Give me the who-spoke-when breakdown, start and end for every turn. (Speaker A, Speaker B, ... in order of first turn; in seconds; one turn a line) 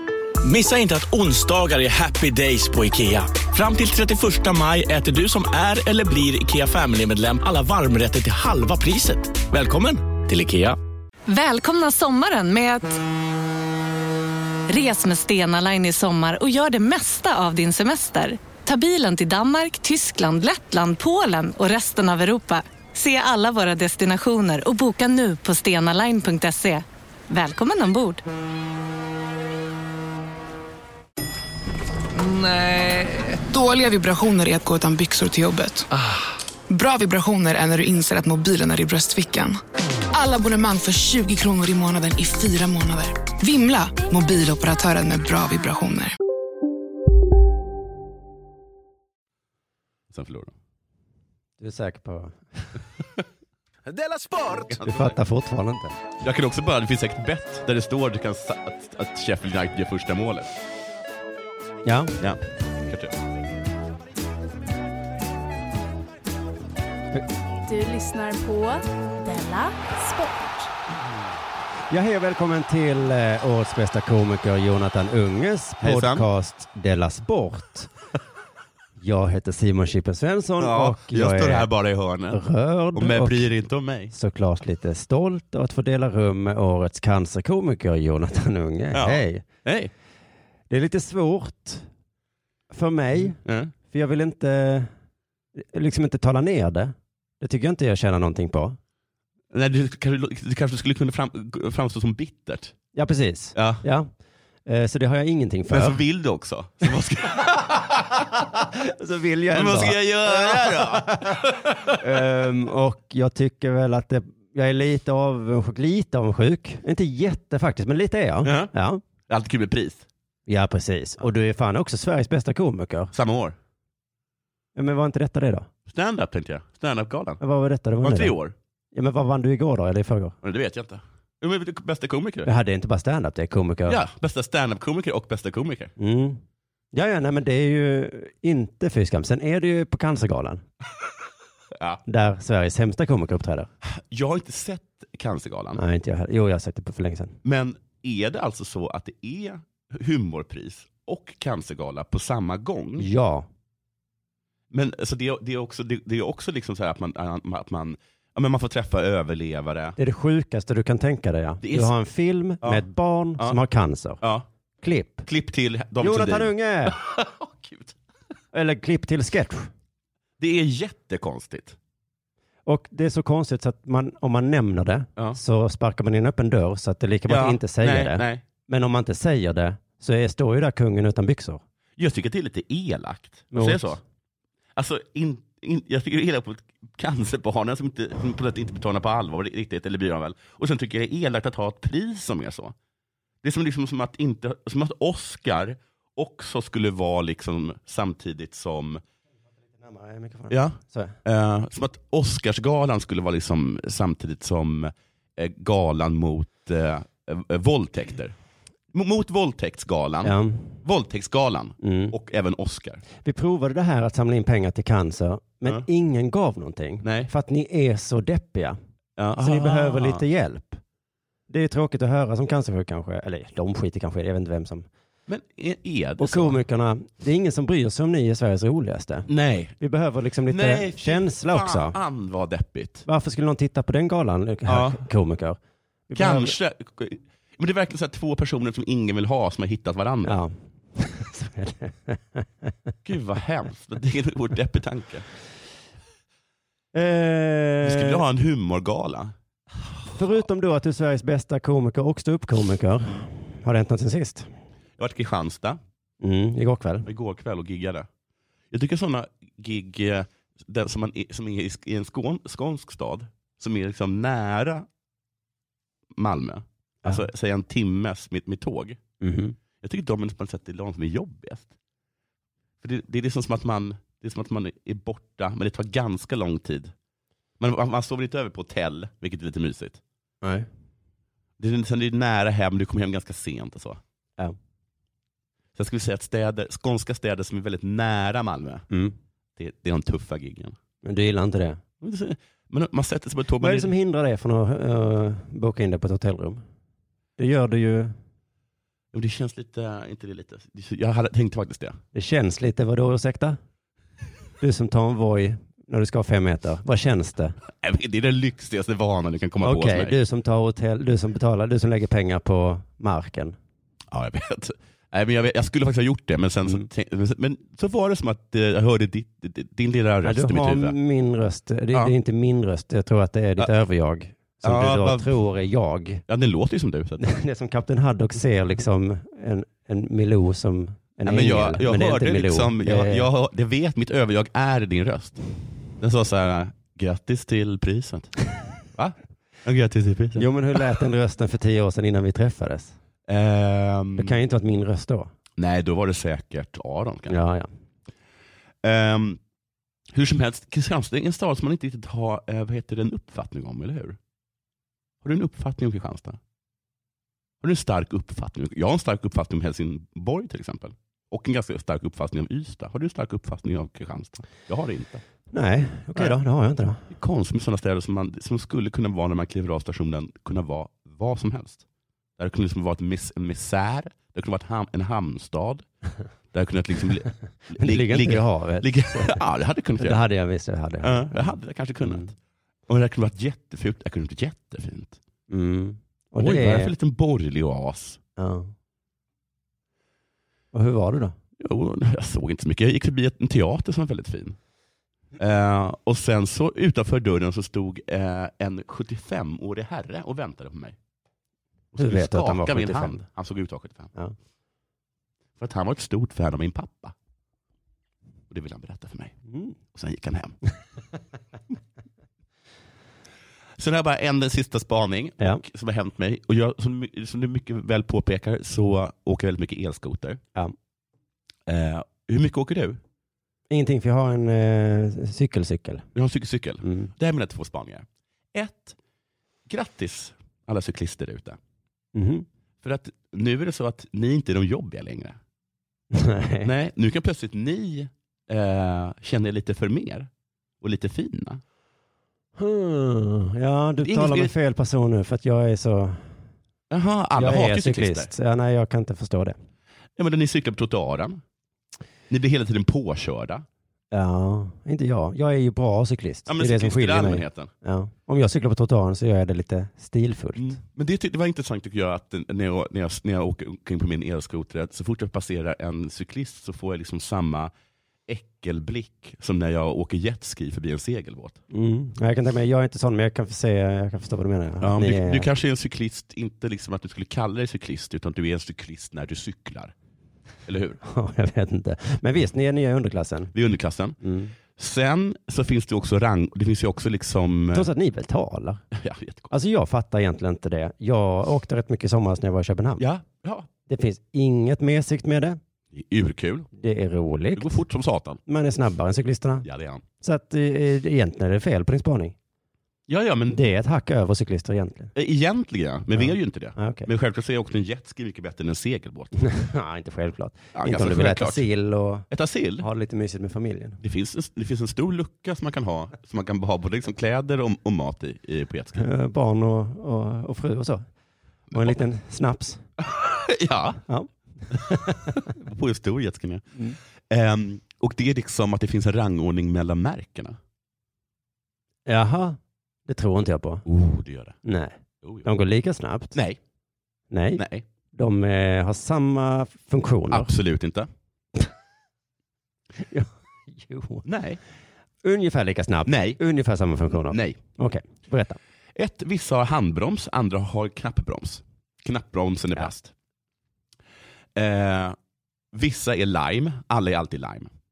Speaker A: 0.4-10.8
Speaker B: 11.3-13.0
Speaker B: 14.7-28.2
Speaker C: 32.1-35.9
Speaker C: 36.7-39.6
Speaker C: 40.1-46.1
Speaker D: 50.1-50.5
Speaker E: 51.6-52.7
Speaker D: 54.6-55.1
Speaker E: 54.8-56.0
Speaker D: 56.2-60.5
Speaker E: 61.8-62.1
Speaker D: 62.2-63.1
Speaker F: 67.6-70.7
Speaker E: 71.9-77.9
Speaker D: 75.8-76.2
Speaker E: 79.0-81.7
Speaker D: 80.6-82.4
Speaker E: 82.3-83.5
Speaker D: 82.9-84.1
Speaker E: 84.1-89.4
Speaker D: 88.9-89.9
Speaker E: 90.7-91.9
Speaker E: 92.7-93.4
Speaker D: 93.2-93.7
Speaker E: 93.9-94.9
Speaker E: 95.5-98.8
Speaker D: 99.5-102.7
Speaker E: 102.9-104.1
Speaker D: 103.5-103.8
Speaker E: 104.7-106.0
Speaker D: 105.7-108.3
Speaker E: 108.5-119.0
Speaker D: 109.5-112.0
Speaker D: 118.4-118.7
Speaker D: 119.3-120.0
Speaker E: 120.5-123.1
Speaker D: 123.1-123.5
Speaker E: 124.7-125.7
Speaker D: 125.9-127.4
Speaker E: 127.4-128.3
Speaker D: 128.0-128.5
Speaker E: 128.9-130.3
Speaker D: 130.4-132.5
Speaker E: 132.4-134.0
Speaker D: 133.9-135.9
Speaker E: 136.0-136.4
Speaker E: 136.9-140.6
Speaker E: 142.1-143.7
Speaker D: 143.8-145.8
Speaker E: 145.8-147.4
Speaker D: 147.4-153.1
Speaker E: 153.0-153.5
Speaker D: 154.7-159.9
Speaker E: 160.0-164.2
Speaker D: 161.6-161.9
Speaker E: 164.8-165.2
Speaker D: 165.2-167.9
Speaker E: 166.0-167.0
Speaker E: 168.5-169.7
Speaker D: 170.4-171.8
Speaker E: 172.7-181.6
Speaker D: 177.3-178.4
Speaker D: 182.0-184.0
Speaker E: 183.5-184.0
Speaker D: 184.8-192.7
Speaker D: 193.4-199.0
Speaker E: 199.8-201.1
Speaker D: 200.5-208.3
Speaker D: 208.9-213.0
Speaker E: 210.2-210.8
Speaker E: 211.8-212.1
Speaker E: 213.2-218.8
Speaker D: 217.0-217.3
Speaker D: 219.2-220.2
Speaker E: 219.4-220.8
Speaker E: 221.5-224.9
Speaker D: 225.3-226.6
Speaker E: 226.2-229.3
Speaker D: 229.3-229.7
Speaker E: 229.8-232.0
Speaker D: 230.5-233.1
Speaker E: 233.1-236.5
Speaker D: 234.7-235.0
Speaker D: 236.2-240.4
Speaker E: 240.2-242.4
Speaker D: 243.1-245.2
Speaker E: 246.9-248.2
Speaker D: 247.8-249.3
Speaker E: 250.1-254.5
Speaker D: 255.0-255.8
Speaker E: 256.2-257.1
Speaker D: 257.1-258.1
Speaker D: 258.7-264.9
Speaker D: 266.1-269.0
Speaker E: 269.2-269.6
Speaker D: 269.8-271.7
Speaker D: 272.8-276.9
Speaker D: 277.6-280.0
Speaker E: 280.4-280.7
Speaker D: 281.6-284.0
Speaker D: 285.8-288.8
Speaker E: 288.9-289.1
Speaker D: 289.6-290.8
Speaker E: 291.0-291.8
Speaker D: 292.0-293.9
Speaker E: 293.6-296.6
Speaker E: 297.4-298.1
Speaker D: 299.1-302.0
Speaker E: 302.1-303.6
Speaker E: 304.6-307.6
Speaker D: 307.8-310.1
Speaker E: 309.6-313.6
Speaker D: 314.1-320.9
Speaker E: 320.2-326.2
Speaker D: 324.6-325.4
Speaker D: 326.3-327.2
Speaker E: 327.2-333.3
Speaker D: 331.2-335.4
Speaker D: 336.0-338.3
Speaker D: 338.9-340.5
Speaker E: 340.3-342.9
Speaker D: 343.3-344.3
Speaker E: 344.2-345.3
Speaker D: 345.6-347.4
Speaker E: 347.3-347.7
Speaker D: 348.8-349.4
Speaker D: 350.1-354.2
Speaker D: 355.2-356.4
Speaker D: 357.6-365.2
Speaker E: 365.5-367.0
Speaker D: 367.1-371.8
Speaker D: 372.4-375.8
Speaker D: 376.5-380.2
Speaker E: 377.8-379.4
Speaker E: 380.0-382.3
Speaker D: 381.0-382.3
Speaker D: 382.9-385.2
Speaker E: 385.5-386.9
Speaker D: 386.4-388.2
Speaker E: 388.4-388.7
Speaker E: 390.7-391.3
Speaker D: 391.6-394.6
Speaker D: 395.4-400.9
Speaker D: 401.9-404.1
Speaker E: 402.0-403.2
Speaker D: 405.6-407.1
Speaker D: 408.5-409.3
Speaker E: 409.5-409.7
Speaker D: 409.9-410.6
Speaker D: 413.8-420.4
Speaker D: 421.7-423.0
Speaker E: 423.7-426.1
Speaker D: 426.1-428.9
Speaker E: 426.8-427.1
Speaker D: 429.7-431.6
Speaker E: 432.1-432.4
Speaker D: 432.8-435.4
Speaker E: 436.1-436.7
Speaker D: 436.6-440.3
Speaker D: 440.8-441.6
Speaker E: 442.6-446.3
Speaker D: 444.0-444.5
Speaker D: 446.9-448.3
Speaker E: 447.4-449.6
Speaker D: 450.2-451.4
Speaker D: 452.3-453.6
Speaker E: 454.1-460.8
Speaker D: 456.5-457.7
Speaker D: 460.6-467.7
Speaker D: 468.3-471.6
Speaker E: 471.7-475.5
Speaker D: 474.8-479.9
Speaker D: 480.7-481.0
Speaker E: 481.0-483.5
Speaker D: 483.5-484.2
Speaker E: 484.2-484.5
Speaker D: 484.7-487.9
Speaker E: 487.7-488.8
Speaker D: 488.9-489.5
Speaker E: 489.5-493.1
Speaker D: 493.0-493.7
Speaker E: 493.9-495.6
Speaker D: 495.9-496.7
Speaker E: 496.7-497.7
Speaker D: 497.6-498.4
Speaker E: 498.5-499.6
Speaker D: 499.6-500.0
Speaker E: 500.2-502.4
Speaker D: 503.1-503.6
Speaker E: 503.5-505.1
Speaker D: 505.1-509.5
Speaker E: 506.1-507.1
Speaker E: 509.4-512.3
Speaker D: 510.7-511.6
Speaker D: 512.3-512.9
Speaker E: 512.8-514.0
Speaker D: 514.0-519.0
Speaker E: 519.0-521.0
Speaker E: 521.7-522.8
Speaker D: 523.1-524.0
Speaker E: 524.1-525.2
Speaker D: 524.7-526.6
Speaker D: 527.3-530.6
Speaker E: 532.1-533.8
Speaker D: 533.9-534.5
Speaker E: 534.6-536.4
Speaker E: 537.3-537.6
Speaker D: 537.6-537.8
Speaker E: 538.1-540.5
Speaker D: 540.3-541.1
Speaker E: 543.0-544.2
Speaker D: 544.2-544.6
Speaker E: 545.2-548.6
Speaker D: 546.1-546.4
Speaker D: 547.3-547.6
Speaker D: 549.0-553.1
Speaker D: 554.5-555.1
Speaker D: 555.7-557.7